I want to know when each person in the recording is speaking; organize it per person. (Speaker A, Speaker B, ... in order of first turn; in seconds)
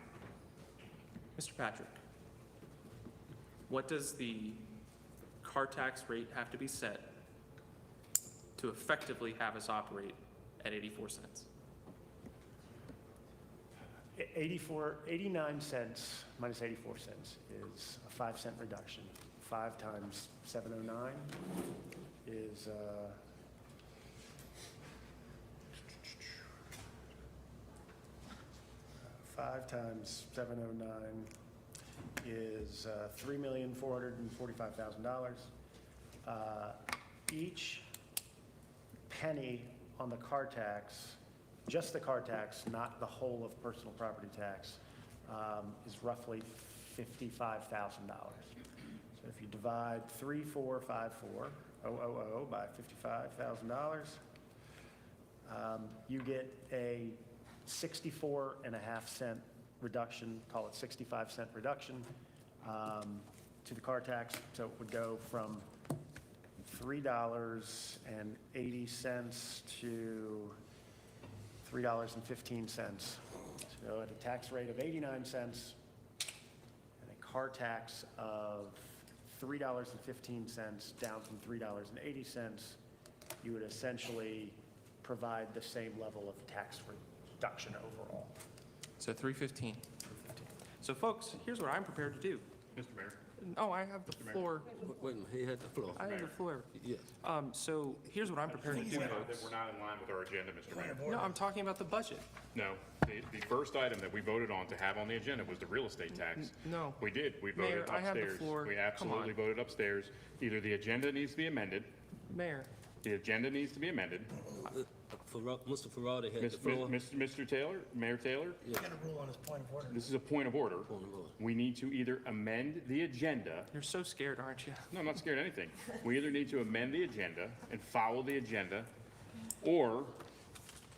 Speaker A: 1.4-2.0, 3.7-4.6, 5.4-7.1, 8.6-11.5, 89.0-92.5, 93.4-94.7, 96.0-99.5, 101.0-102.2, 106.2-107.0, 107.5-109.3, 112.3-112.7, 123.7-124.9
Speaker B: 14.1-21.4, 22.2-23.2, 29.1-31.3, 32.2-35.5, 36.2-37.9, 39.1-48.5, 49.2-54.2, 55.4-62.1, 62.6-65.7, 66.6-70.6, 71.6-75.8, 77.0-82.8, 83.4-88.3
Speaker C: 92.7-93.2, 96.0-96.3, 98.6-101.0, 102.5-111.9, 113.0-114.3, 116.4-118.6, 119.9-123.7, 124.9-128.9, 129.6-130.2
Speaker D: 94.9-96.1, 96.8-97.0, 114.6-117.0, 120.9-121.3
Speaker E: 98.7-99.4, 100.7-101.3, 118.7-120.0